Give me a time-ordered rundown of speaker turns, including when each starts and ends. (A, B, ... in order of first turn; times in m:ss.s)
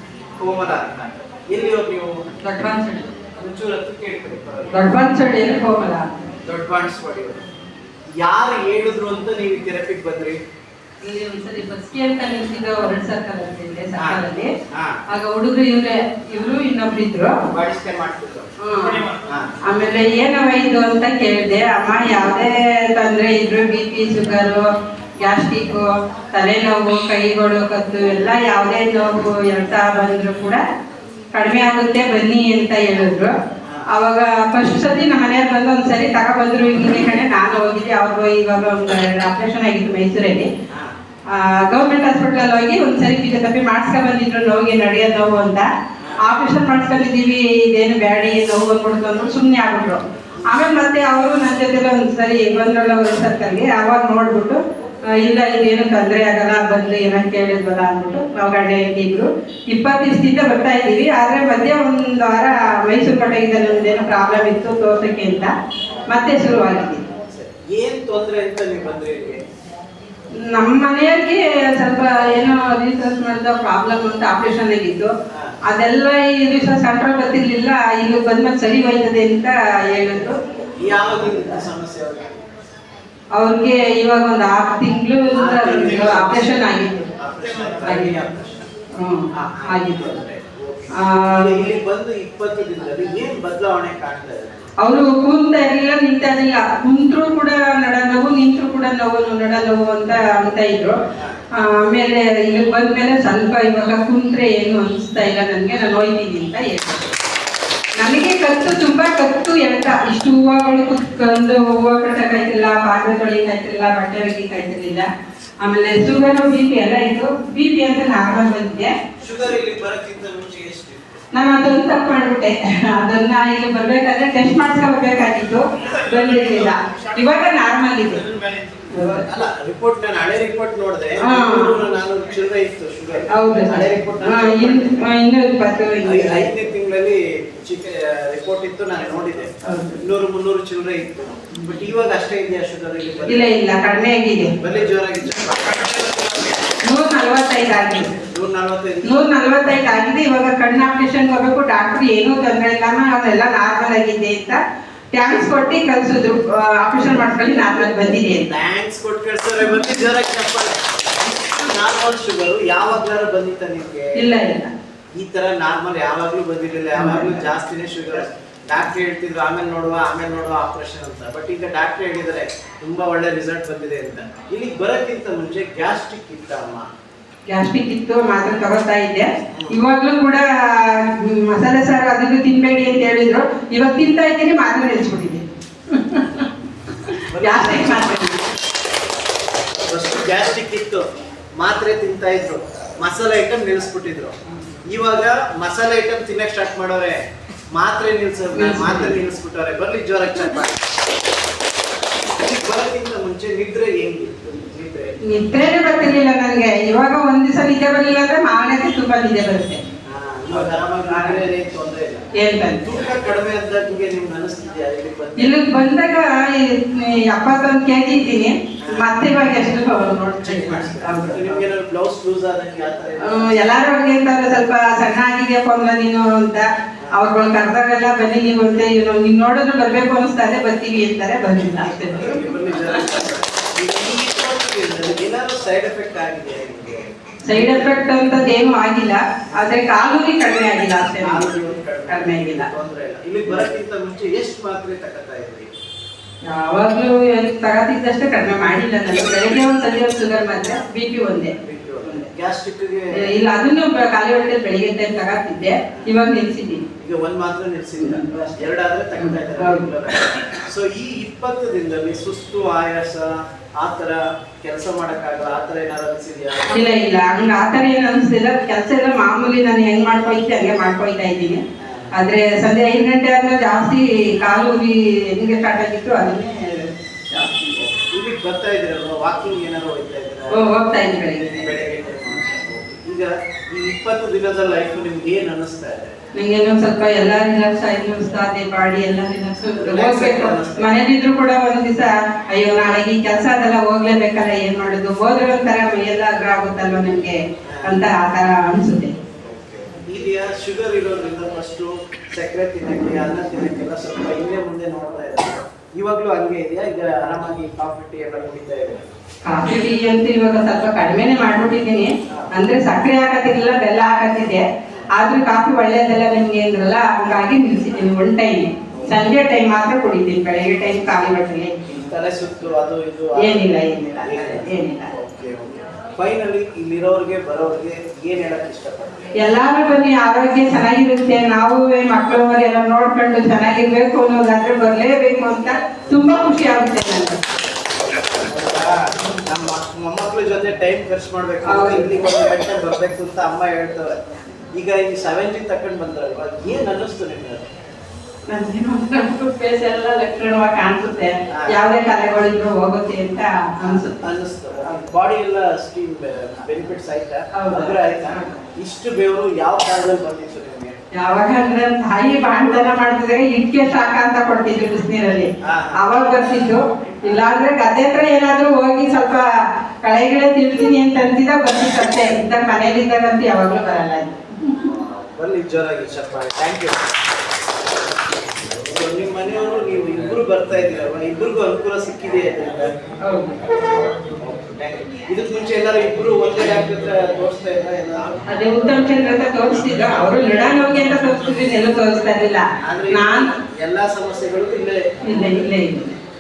0:00.4-0:02.2 A
0:02.4-0:03.1 B
0:03.4-0:04.8 A
0:04.7-0:06.1 B
0:06.4-0:07.4 A
0:08.2-0:10.4 A
0:11.0-0:14.5 B
0:14.0-0:15.0 A
0:15.1-0:17.4 B
0:17.5-0:18.5 A
0:18.6-0:19.1 B
0:19.3-0:19.5 A
0:19.7-0:24.6 B
0:25.2-0:30.6 B
0:31.3-0:33.3 B
0:33.9-0:40.5 B
0:41.3-0:45.7 B
0:46.2-1:05.5 B
1:06.1-1:07.0 B
1:07.2-1:09.4 A
1:10.5-1:15.1 B
1:15.3-1:15.6 A
1:15.7-1:20.4 B
1:20.8-1:22.4 A
1:23.4-1:27.1 B
1:25.4-1:26.6 A
1:27.2-1:28.7 A
1:27.8-1:28.2 B
1:29.0-1:30.2 B
1:29.4-1:34.7 A
1:31.0-1:31.7 B
1:34.8-1:41.0 B
1:41.1-1:41.4 A
1:41.6-1:47.2 B
1:48.0-1:55.1 B
1:55.6-1:58.9 B
1:59.2-2:01.0 A
2:01.3-2:08.3 B
2:08.9-2:09.2 B
2:08.9-2:15.1 A
2:11.2-2:11.8 B
2:13.3-2:16.5 B
2:16.0-2:23.5 A
2:19.6-2:20.0 B
2:23.3-2:24.6 B
2:24.4-2:26.6 A
2:26.8-2:28.2 B
2:28.3-2:29.2 A
2:29.0-2:34.6 B
2:35.1-2:38.5 B
2:38.4-2:44.3 A
2:44.2-2:44.7 B
2:45.2-2:56.9 A
2:47.0-2:47.4 B
2:57.5-3:08.4 B
2:59.5-2:59.8 A
3:07.3-3:08.2 A
3:09.9-3:11.1 A
3:11.6-3:14.4 A
3:14.9-3:17.2 A
3:17.7-3:20.8 A
3:18.5-3:19.2 B
3:22.4-3:25.2 A
3:25.3-3:29.8 B
3:30.1-3:32.3 A
3:30.5-3:31.4 B
3:32.4-3:32.9 B
3:32.8-3:35.6 A
3:35.4-3:41.7 B
3:38.8-3:39.1 A
3:40.4-3:43.6 A
3:43.2-3:53.0 B
3:51.6-3:58.3 A
3:57.4-4:01.5 B
4:01.2-4:05.7 A
4:02.1-4:02.7 B
4:06.5-4:11.5 B
4:11.6-4:13.2 A
4:13.1-4:16.8 B
4:17.0-4:26.8 A
4:18.0-4:18.3 B
4:19.2-4:19.9 B
4:26.7-4:31.6 B
4:31.8-4:32.1 A
4:32.2-4:37.8 B
4:37.8-4:40.6 A
4:40.5-4:41.8 B
4:41.6-4:46.2 A
4:46.4-4:59.1 B
4:49.8-4:50.9 A
4:57.7-4:58.0 A
4:59.5-5:09.2 A
5:09.4-5:21.8 B
5:21.9-5:29.2 A
5:23.4-5:25.1 B
5:29.4-5:37.4 B
5:38.4-5:44.2 A
5:41.7-5:42.2 B
5:44.8-5:47.6 A
5:48.5-5:54.2 B
5:51.5-5:51.8 A
5:53.8-6:01.0 A
5:57.5-5:58.5 B
6:01.1-6:09.5 B
6:05.6-6:06.0 A
6:10.0-6:14.9 B
6:14.8-6:17.0 A
6:18.8-6:22.9 A
6:23.2-6:23.6 B
6:23.9-6:31.2 A
6:28.5-6:33.5 B
6:32.8-6:35.5 A
6:35.2-6:36.2 B